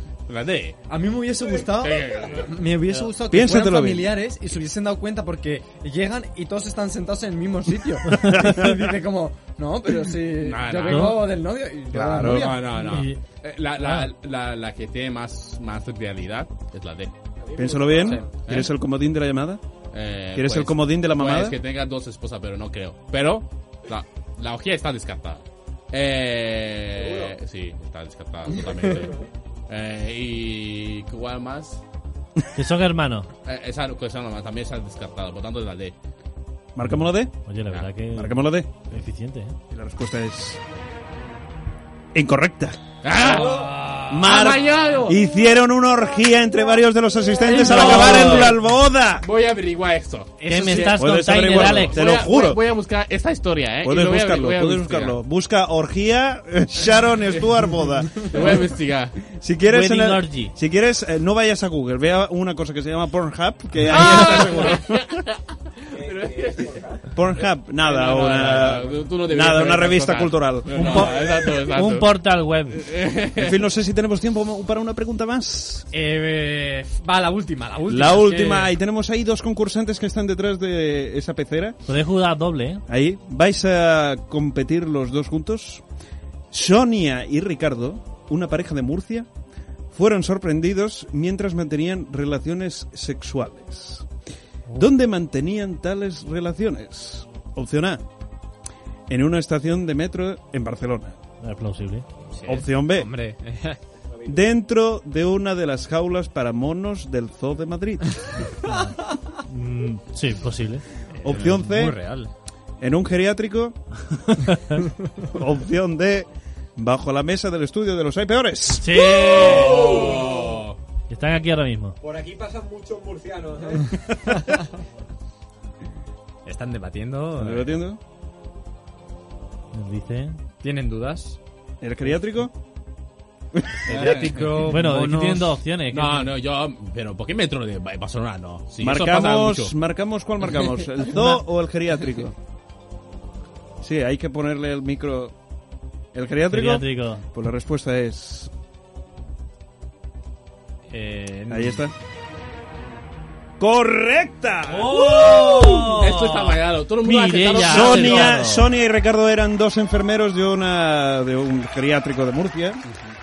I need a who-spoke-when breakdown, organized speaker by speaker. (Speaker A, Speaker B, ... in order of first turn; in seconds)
Speaker A: 0.3-0.8, 1.7-2.5, 10.3-11.2, 12.2-17.1, 19.9-31.8, 33.5-36.0, 43.0-45.2, 47.6-48.6, 49.2-55.2, 58.2-59.2, 63.9-66.8, 67.8-72.1, 72.8-73.6, 119.1-120.8, 133.9-134.5, 135.9-139.7, 155.9-158.4
Speaker B: 0.9-12.7, 18.1-18.6, 50.4-51.0, 75.9-78.7, 102.3-103.8, 111.1-112.3, 126.5-127.8, 130.6-131.4, 133.9-135.6, 150.9-151.9
Speaker C: 3.3-4.2, 8.2-8.8, 11.9-12.6, 17.6-19.6, 20.3-21.6, 36.8-37.3, 38.1-38.7, 39.7-40.6, 42.1-42.8, 44.1-49.3, 51.0-52.6, 53.8-58.5, 59.2-65.1, 67.1-71.1, 73.4-75.9, 77.9-81.8, 82.9-85.8, 86.5-89.3, 89.9-94.1, 94.7-98.0, 99.1-101.2, 102.5-103.1, 104.3-108.2, 111.2-112.0, 112.8-113.8, 115.3-119.0, 127.4-128.0, 131.8-132.5, 133.5-133.8, 138.8-142.3, 143.8-145.3, 146.1-148.5, 151.5-151.9, 153.6-156.1, 157.6-162.8
Speaker D: 8.1-8.4, 10.9-11.3, 12.7-13.2, 13.8-14.1, 32.5-33.3, 36.9-39.6, 47.6-48.5, 50.5-52.1, 59.7-60.5, 70.8-72.9, 81.9-82.8, 101.4-102.1, 108.5-110.9, 118.7-119.9, 121.1-122.0, 129.7-130.4, 134.6-136.3, 146.5-147.2, 154.7-158.7
Speaker E: 17.4-18.3, 26.9-27.4, 43.2-43.8, 65.9-67.1, 70.9-71.4, 104.1-104.4, 119.3-120.6, 122.0-124.5